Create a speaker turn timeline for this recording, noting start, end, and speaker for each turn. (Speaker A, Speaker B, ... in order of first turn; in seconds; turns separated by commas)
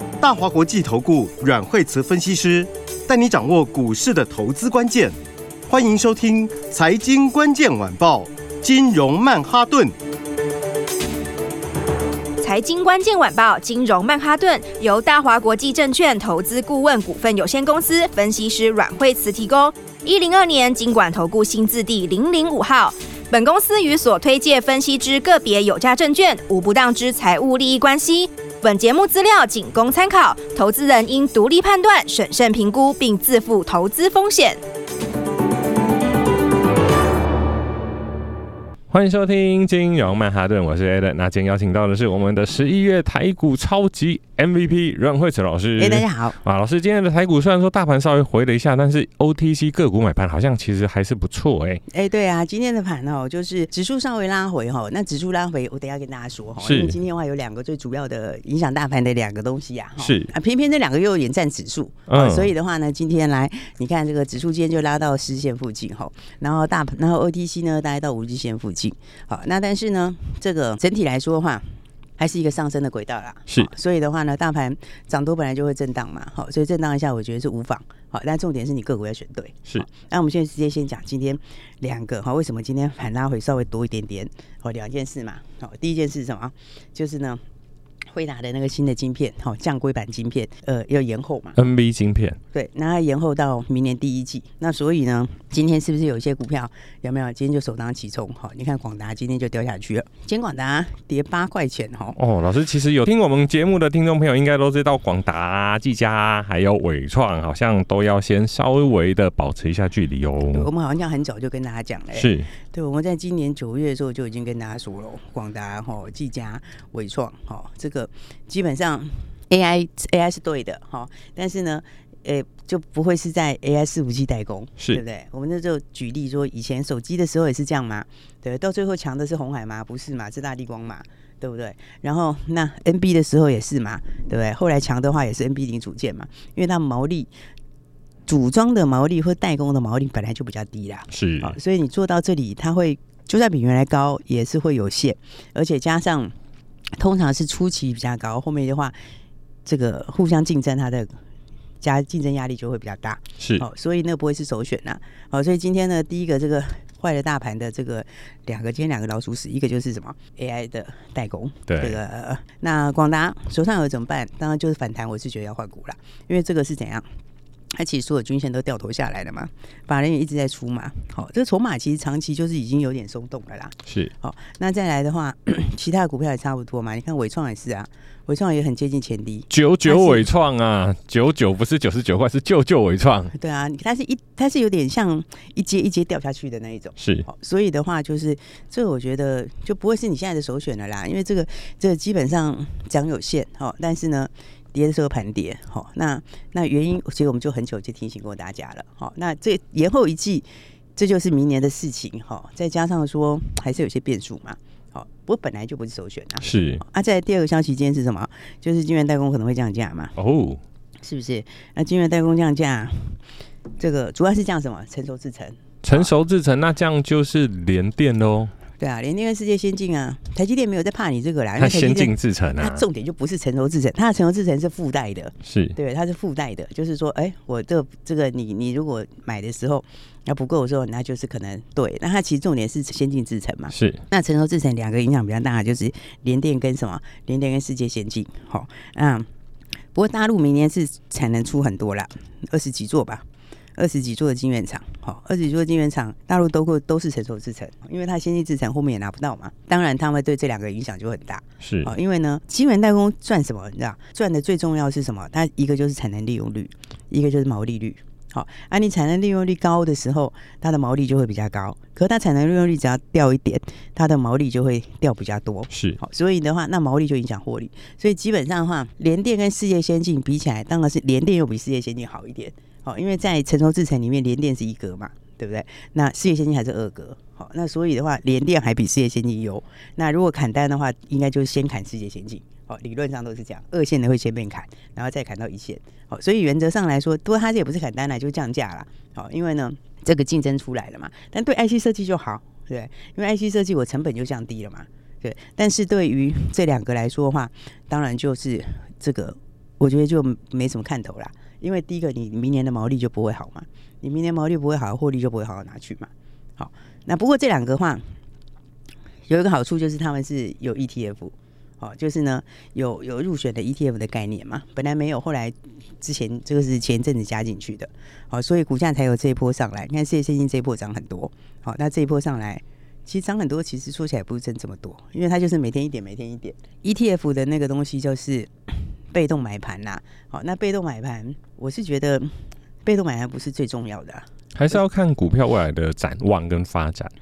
Speaker A: 0.2-5.2, Speaker A: 5.7-9.9, Speaker B: 12.4-34.6, Speaker C: 38.9-51.8, Speaker D: 45.8-46.4, Speaker D: 51.9-87.4, Speaker C: 56.6-57.0, Speaker C: 60.0-60.3, Speaker C: 62.1-62.5, Speaker D: 88.1-91.6, Speaker C: 91.6-92.4, Speaker D: 92.5-102.2, Speaker C: 102.2-110.7, Speaker D: 110.5-137.3, Speaker C: 112.1-112.5, Speaker D: 138.3-146.3, Speaker C: 141.1-141.6, Speaker D: 147.0-149.0, Speaker D: 149.7-151.2, Speaker D: 151.8-167.1, Speaker C: 153.4-153.7, Speaker C: 161.7-162.0, Speaker D: 167.8-180.3, Speaker C: 179.5-183.3, Speaker D: 183.3-210.1, Speaker C: 187.0-187.3, Speaker C: 206.4-206.8, Speaker C: 210.2-210.6, Speaker D: 211.0-213.2, Speaker D: 213.8-216.1, Speaker C: 215.8-218.5, Speaker D: 218.8-239.3, Speaker C: 221.6-222.8, Speaker C: 225.4-225.8, Speaker C: 233.7-234.0, Speaker D: 239.9-308.1, Speaker C: 251.6-251.9, Speaker C: 265.7-266.0, Speaker D: 309.3-334.2, Speaker C: 334.6-337.1